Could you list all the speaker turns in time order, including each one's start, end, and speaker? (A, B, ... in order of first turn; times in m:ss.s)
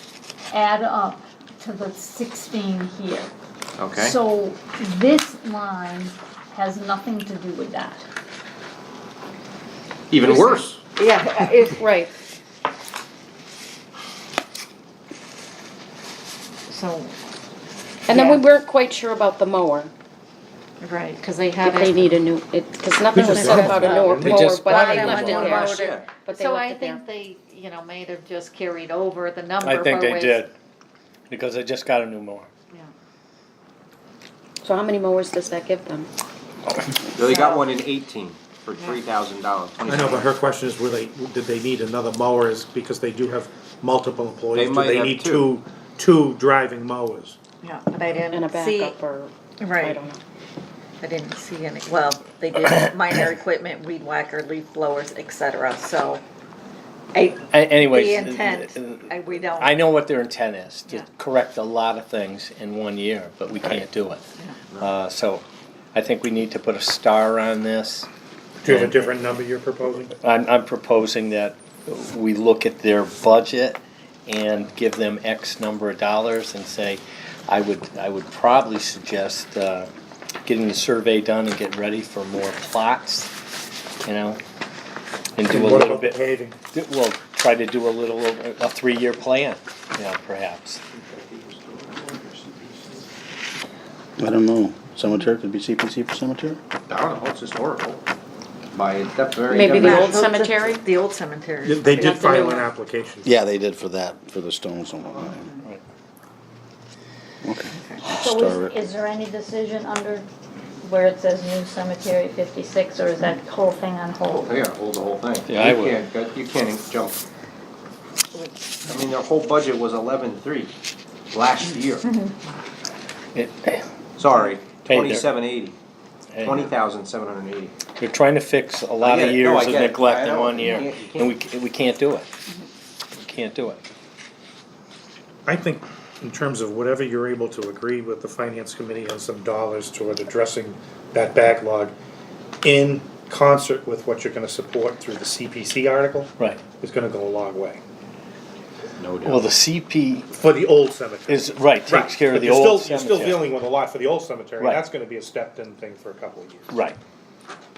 0:00.5-0:03.3 A
0:03.8-0:04.2 B
0:03.9-0:08.0 A
0:10.1-0:10.9 B
0:10.2-0:11.7 C
0:11.0-0:11.7 D
0:11.8-0:12.1 E
0:16.7-0:17.0 C
0:16.7-0:17.0 D
0:18.1-0:19.9 E
0:18.1-0:18.4 C
0:20.8-0:22.2 C
0:20.9-0:21.2 D
0:21.6-0:27.0 E
0:23.1-0:24.4 F
0:23.6-0:24.0 D
0:24.2-0:26.2 B
0:24.8-0:30.4 C
0:25.0-0:25.5 D
0:25.1-0:25.4 G
0:29.6-0:30.5 G
0:31.3-0:32.5 G
0:34.6-0:36.1 E
0:37.1-0:40.3 B
0:39.8-0:47.4 F
0:44.5-0:45.5 B
0:47.6-0:48.9 C
0:47.8-0:48.8 D
0:48.2-0:50.2 E
0:49.6-0:49.9 D
0:51.0-0:56.1 D
0:51.3-0:55.3 C
0:55.8-0:56.2 C
0:57.1-0:59.8 C
0:57.5-1:04.2 G
1:04.8-1:08.1 G
1:08.6-1:10.1 F
1:08.6-1:09.2 G
1:10.2-1:19.9 G
1:20.4-1:23.3 G
1:24.0-1:24.4 G
1:25.4-1:26.1 G
1:25.4-1:26.6 F
1:26.7-1:30.8 G
1:31.0-1:33.0 B
1:34.2-1:36.6 H
1:36.9-1:38.0 B
1:38.7-1:40.2 B
1:39.5-1:40.8 E
1:39.8-1:42.4 C
1:40.8-1:42.4 D
1:41.6-1:43.3 F
1:42.0-1:42.5 E
1:43.2-1:45.5 H
1:47.4-1:48.7 H
1:48.1-1:50.3 A
1:50.8-1:54.6 A
1:54.3-1:57.2 B
1:55.5-1:56.0 G
1:58.8-2:00.7 B
2:01.3-2:02.1 B
2:02.0-2:02.3 A
2:03.3-2:03.8 G
2:04.2-2:05.8 B
2:04.8-2:05.3 G
2:06.3-2:06.6 G
2:06.4-2:07.7 B
2:08.0-2:12.3 G
2:09.0-2:11.4 B
2:13.1-2:13.8 G
2:15.4-2:21.9 F
2:22.6-2:27.8 F
2:29.0-2:29.5 B
2:29.2-2:30.3 G
2:30.3-2:36.7 F
2:31.3-2:33.6 G
2:34.6-2:34.8 G
2:36.7-2:37.0 G